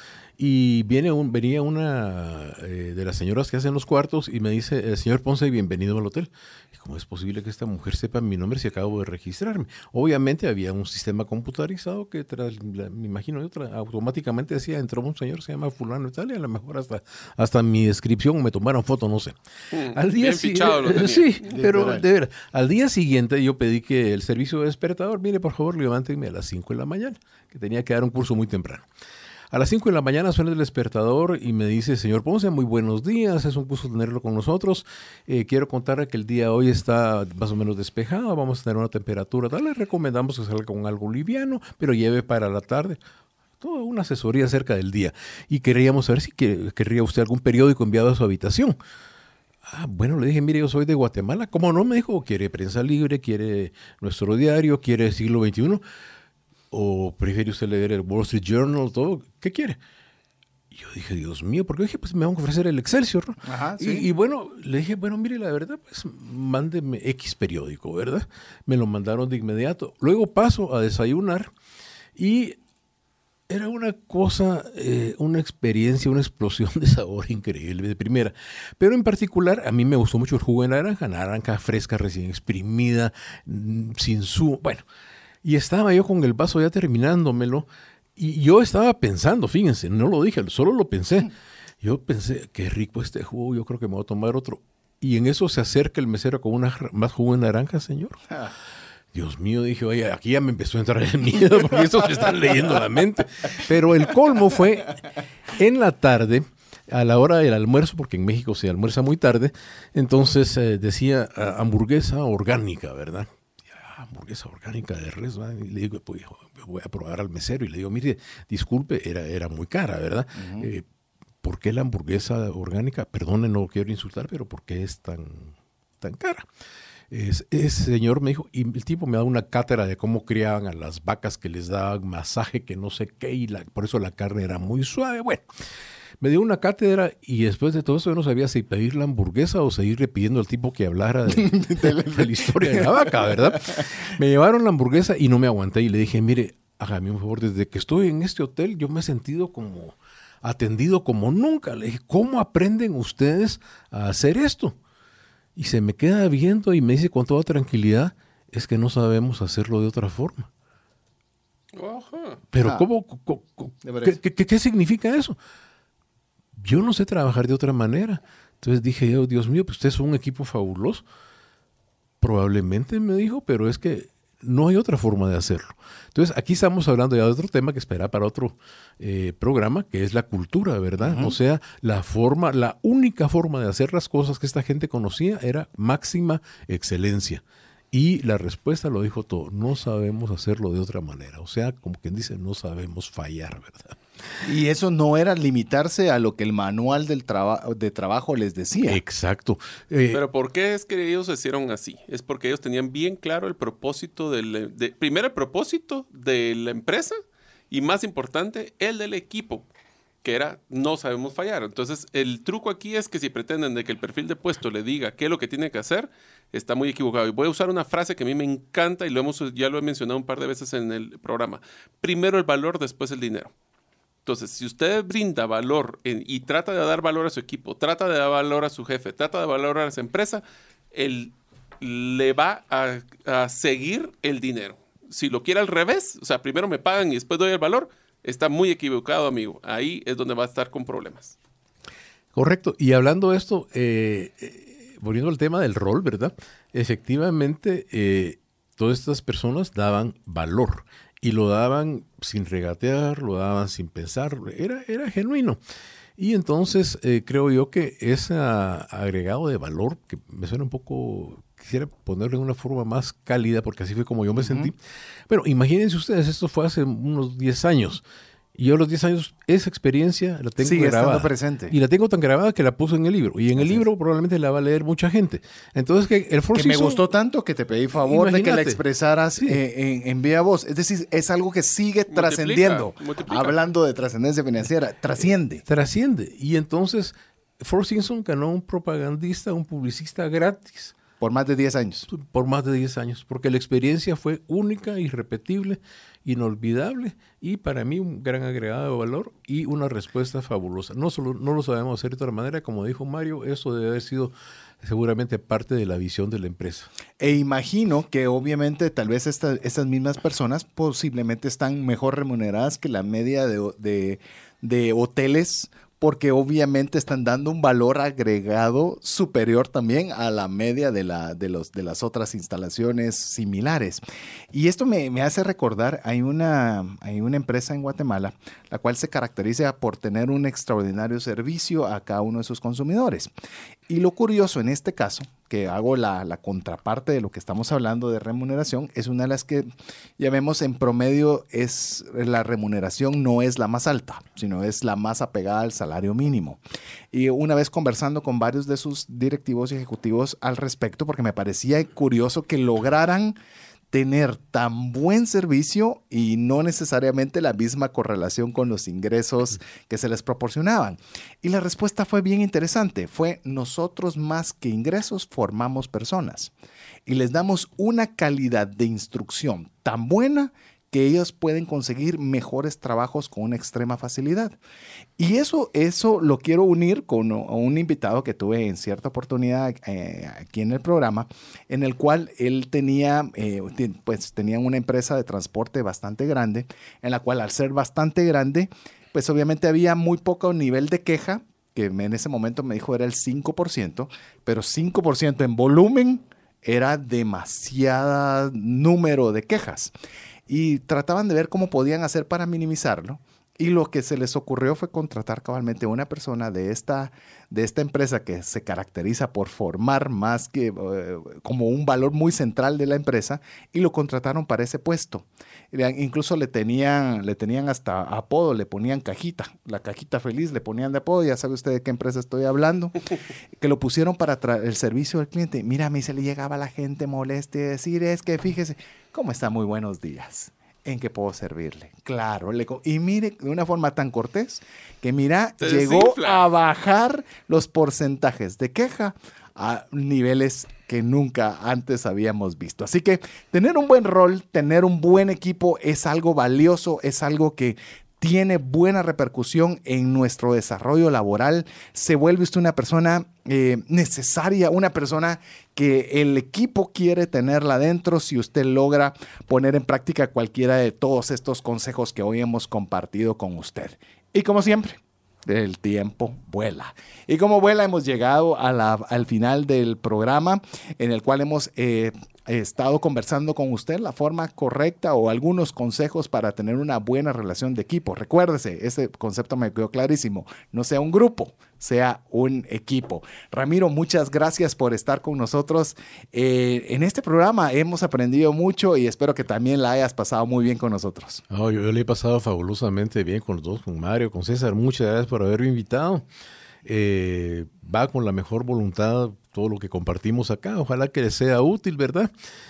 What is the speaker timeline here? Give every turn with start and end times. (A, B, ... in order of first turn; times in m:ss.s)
0:00.4-0:19.4 A
0:19.7-0:21.5 B
0:19.9-0:28.9 A
0:21.5-0:22.0 C
0:29.5-0:43.0 A
0:43.6-0:48.8 A
0:49.7-0:55.8 A
0:56.7-0:59.8 A
1:00.7-1:11.5 A
1:03.4-1:04.1 C
1:12.2-1:12.6 A
1:13.5-1:24.8 A
1:25.4-1:38.2 A
1:39.1-1:45.0 A
1:45.5-2:00.8 A
2:00.4-2:00.7 C
2:01.4-2:06.5 A
2:07.1-2:15.4 A
2:16.2-2:34.8 A
2:21.3-2:23.8 C
2:35.6-2:40.5 A
2:41.7-2:42.4 B
2:42.5-2:45.4 A
2:43.8-2:44.2 C
2:46.6-2:51.0 A
2:52.2-3:14.0 A
3:01.0-3:01.4 C
3:14.4-3:19.0 C
3:18.9-3:20.2 A
3:20.1-3:27.2 B
3:27.7-3:29.7 B
3:30.2-3:43.5 B
3:44.3-4:01.4 B
4:02.3-4:15.6 A
4:16.2-4:24.8 A
4:24.4-4:24.7 C
4:25.3-4:28.0 A
4:28.6-4:37.0 A
4:30.6-4:31.8 C
4:33.6-4:33.8 C
4:36.5-4:45.6 C
4:38.0-4:38.8 A
4:42.1-4:43.6 B
4:45.6-4:50.9 A
4:51.2-4:52.1 C
4:52.1-5:06.9 A
5:07.2-5:33.3 C
5:33.9-5:39.7 C
5:40.2-5:46.6 C
5:47.1-5:53.4 C
5:53.9-6:06.5 C
6:07.1-6:14.6 C
6:15.2-6:39.9 C
6:40.5-7:03.0 C
7:03.6-8:11.4 C
7:15.6-7:16.5 B
8:11.5-8:16.3 A
8:16.8-8:22.3 A